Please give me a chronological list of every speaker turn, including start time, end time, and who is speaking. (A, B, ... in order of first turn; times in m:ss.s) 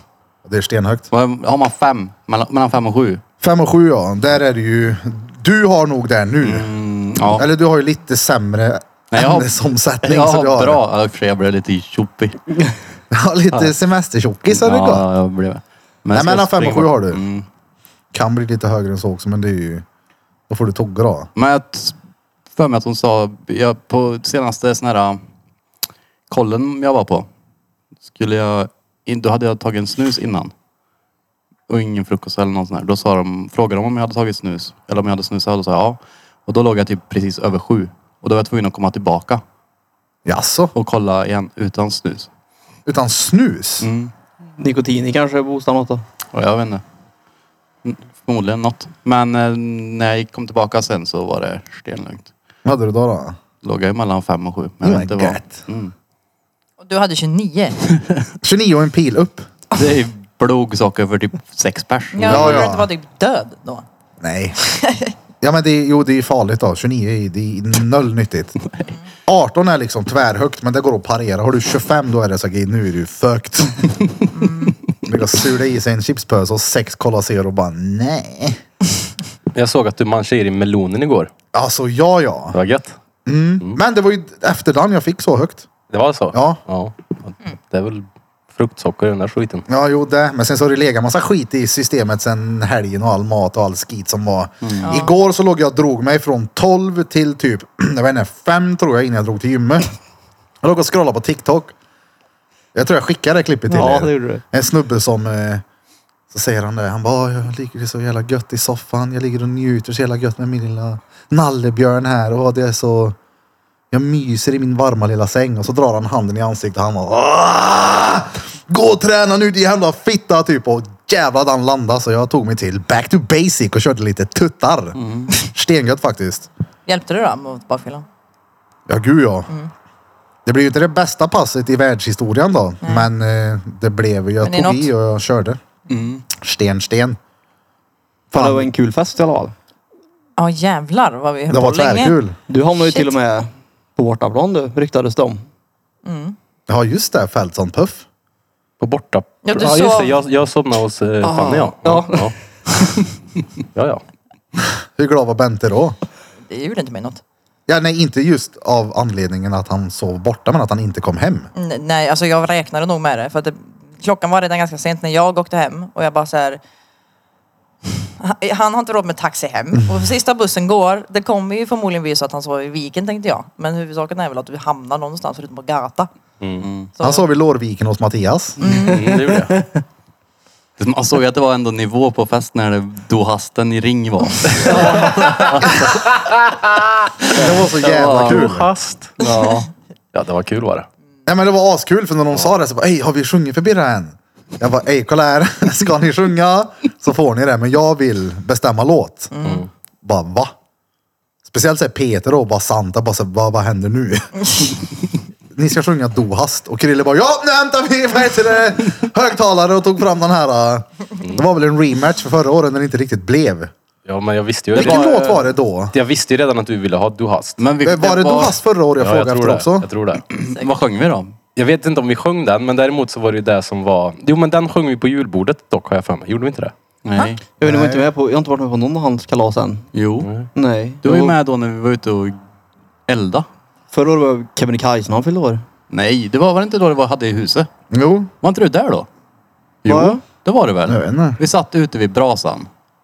0:00.4-0:01.1 A
0:01.1-0:03.2 B
0:03.4-0:06.7 A
0:06.4-0:07.4 B
0:07.2-0:10.8 A
0:09.1-0:12.4 B
0:13.1-0:15.0 A
0:14.5-0:17.4 B
0:16.1-0:17.2 A
0:18.1-0:19.8 A
0:20.5-0:21.3 A
0:21.4-0:22.0 B
0:22.5-0:25.2 B
0:26.3-0:27.3 B
0:28.1-0:30.5 B
0:31.7-0:39.4 B
0:40.2-0:40.7 A
0:40.7-0:42.3 B
0:42.8-0:43.9 A
0:43.8-0:44.1 B
0:44.6-0:46.0 C
0:46.3-0:46.8 B
0:47.8-0:52.3 B
0:52.6-0:53.4 A
0:53.6-0:55.9 B
0:54.8-0:55.6 A
0:56.8-0:57.8 D
0:58.4-0:59.5 A
0:59.7-1:02.7 B
1:02.1-1:03.8 D
1:02.2-1:02.9 A
1:04.2-1:04.6 A
1:04.7-1:05.1 D
1:05.4-1:08.6 A
1:09.2-1:13.9 A
1:14.3-1:14.8 D
1:15.0-1:18.6 A
1:19.5-1:21.3 E
1:21.5-1:22.6 A
1:22.5-1:23.0 E
1:23.2-1:25.7 A
1:25.9-1:29.6 E
1:26.3-1:26.6 A
1:29.7-1:39.9 A
1:34.8-1:35.1 D
1:40.6-1:41.7 A
1:42.7-1:45.6 A
1:43.7-1:44.4 C
1:46.3-1:53.2 A
1:53.9-2:06.5 A
2:05.0-2:05.3 B
2:06.8-2:08.0 D
2:08.9-2:09.5 A
2:10.4-2:15.6 A
2:12.8-2:13.1 D
2:14.4-2:14.9 D
2:15.9-2:16.2 B
2:16.3-2:17.2 A
2:18.3-2:18.7 A
2:18.3-2:19.5 C
2:20.4-2:22.2 D
2:21.5-2:22.4 A
2:22.5-2:25.4 C
2:22.8-2:23.1 D
2:26.0-2:26.3 D
2:26.7-2:28.0 A
2:28.8-2:32.3 E
2:29.4-2:30.1 D
2:31.2-2:32.3 C
2:33.7-2:34.0 E
2:34.6-2:35.9 A
2:36.5-2:37.2 D
2:37.7-2:41.5 A
2:41.6-2:46.6 D
2:48.2-2:56.1 D
2:49.7-2:50.1 A
2:56.4-2:56.6 E
2:56.6-2:56.9 B
2:57.0-2:57.3 D
2:57.0-2:58.6 A
2:58.6-2:59.0 D
2:58.6-2:59.7 C
2:58.9-2:59.6 E
3:00.8-3:06.0 B
3:04.6-3:05.3 C
3:06.2-3:09.1 E
3:07.2-3:08.5 B
3:07.3-3:08.7 A
3:09.2-3:09.7 B
3:10.1-3:10.9 E
3:11.2-3:19.3 A
3:19.3-3:19.7 D
3:19.4-3:19.7 E
3:20.0-3:20.5 A
3:21.4-3:24.5 A
3:25.5-3:33.7 A
3:34.0-3:35.4 E
3:34.7-3:35.3 B
3:34.7-3:35.9 A
3:35.9-3:37.6 E
3:37.6-3:38.6 B
3:37.8-3:39.8 A
3:39.0-3:40.2 E
3:40.3-3:41.3 B
3:41.5-3:46.7 E
3:47.0-3:47.4 B
3:47.6-3:49.9 C
3:47.6-3:48.0 A
3:49.9-3:50.3 B
3:50.2-3:50.5 E
3:50.5-3:51.2 C
3:51.0-3:52.4 B
3:51.1-3:51.3 E
3:53.1-3:53.5 B
3:53.9-3:55.6 C
3:55.9-3:57.7 B
3:57.9-3:58.3 A
3:58.4-3:59.1 B
3:59.8-4:02.7 B
3:59.8-4:00.2 C
4:00.9-4:01.4 A